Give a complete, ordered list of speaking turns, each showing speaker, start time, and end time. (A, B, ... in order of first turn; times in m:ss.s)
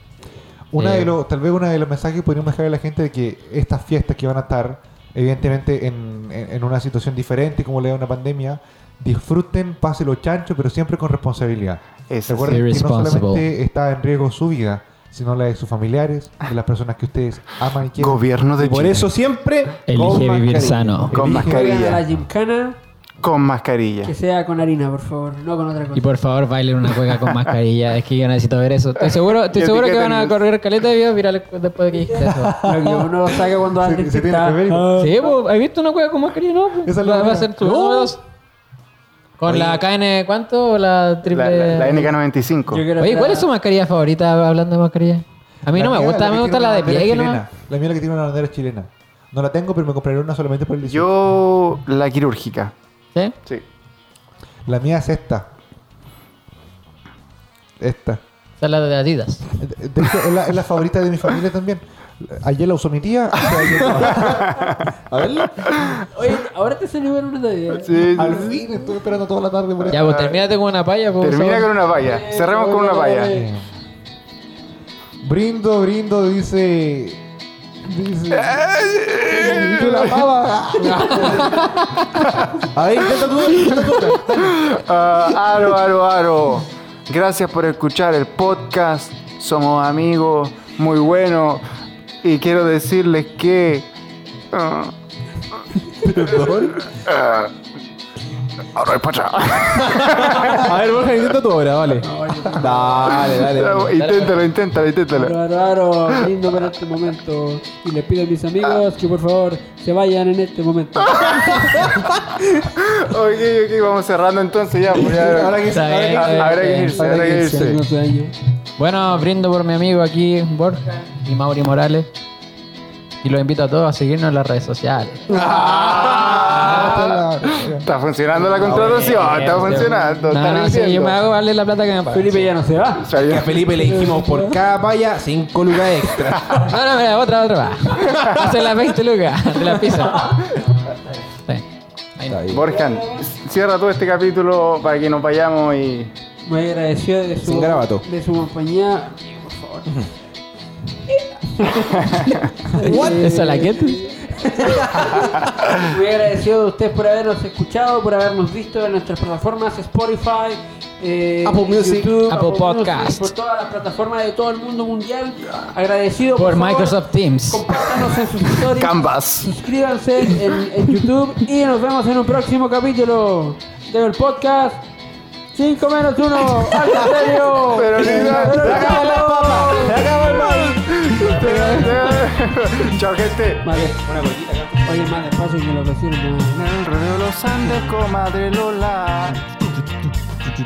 0:00.7-0:18.2 A
0:00.8-0:01.1 B
0:12.1-0:12.6 C
0:12.4-0:13.5 B
0:18.0-0:19.1 C
0:18.6-0:21.1 D
0:19.9-0:21.2 B
0:21.0-0:21.9 A
0:21.1-0:22.0 C
0:21.1-0:22.8 E
0:23.2-0:24.1 C
0:24.0-0:26.1 E
0:25.9-0:32.6 B
0:29.0-0:30.4 C
0:32.2-0:34.9 A
0:32.6-0:35.4 E
0:35.0-0:38.2 B
0:36.8-0:38.2 A
0:39.4-0:42.2 B
0:39.4-0:39.8 D
0:41.3-0:42.9 C
0:42.7-0:43.5 E
0:43.0-0:47.4 B
0:45.7-0:51.1 A
0:50.9-0:52.7 C
0:54.7-0:55.5 A
0:57.8-0:58.2 A
0:58.6-0:59.5 B
0:59.6-1:04.5 A
1:03.6-1:04.4 D
1:04.0-1:04.9 C
1:05.1-1:05.6 D
1:05.6-1:06.0 C
1:06.0-1:08.5 E
1:07.8-1:08.6 C
1:08.2-1:10.1 A
1:09.9-1:10.4 C
1:09.9-1:11.7 B
1:11.2-1:13.4 C
1:11.9-1:13.5 E
1:13.3-1:13.6 A
1:15.2-1:17.2 A
1:17.8-1:18.7 A
1:18.4-1:20.2 C
1:19.2-1:21.5 A
1:20.8-1:21.6 E
1:21.1-1:21.7 B
1:22.2-1:22.6 C
1:22.8-1:24.2 D
1:22.8-1:24.6 A
1:23.8-1:24.0 B
1:24.4-1:31.6 C
1:32.2-1:33.9 C
1:34.5-1:34.9 C
1:36.0-1:36.8 D
1:36.3-1:37.5 C
1:38.8-1:40.7 C
1:39.9-1:43.9 D
1:42.0-1:43.4 E
1:43.0-1:45.4 C
1:43.6-1:44.5 B
1:45.1-1:51.8 E
1:51.0-1:57.8 C
1:51.8-1:52.2 D
1:54.9-1:57.7 D
1:55.6-1:57.0 B
1:56.9-1:58.3 E
1:58.8-2:02.1 B
2:03.2-2:05.2 B
2:05.3-2:05.8 E
2:05.3-2:06.9 D
2:05.4-2:11.2 C
2:06.5-2:07.9 A
2:08.4-2:12.5 B
2:08.6-2:09.7 D
2:09.7-2:10.2 E
2:12.1-2:14.6 E
2:13.0-2:13.7 C
2:13.1-2:16.7 D
2:16.2-2:16.6 C
2:16.5-2:20.6 B
2:18.0-2:18.5 C
2:20.0-2:20.4 E
2:22.2-2:22.6 B
2:22.3-2:22.7 D
2:22.5-2:26.1 C
2:22.7-2:23.3 E
2:26.4-2:30.0 E
2:27.4-2:28.0 D
2:31.5-2:54.8 E
2:32.0-2:32.4 C
2:32.8-2:34.0 B
2:32.8-2:33.4 D
2:34.3-2:35.1 D
2:41.4-2:42.2 D
2:42.2-2:43.3 B
2:46.3-2:47.7 B
2:48.4-2:49.5 C
2:55.5-3:00.2 E
2:57.5-3:03.7 C
2:57.9-3:02.3 D
2:58.2-2:59.8 A
3:01.1-3:02.2 E
3:03.6-3:04.0 E
3:03.7-3:05.2 D
3:04.8-3:06.7 E
3:06.5-3:09.4 C
3:07.6-3:07.9 E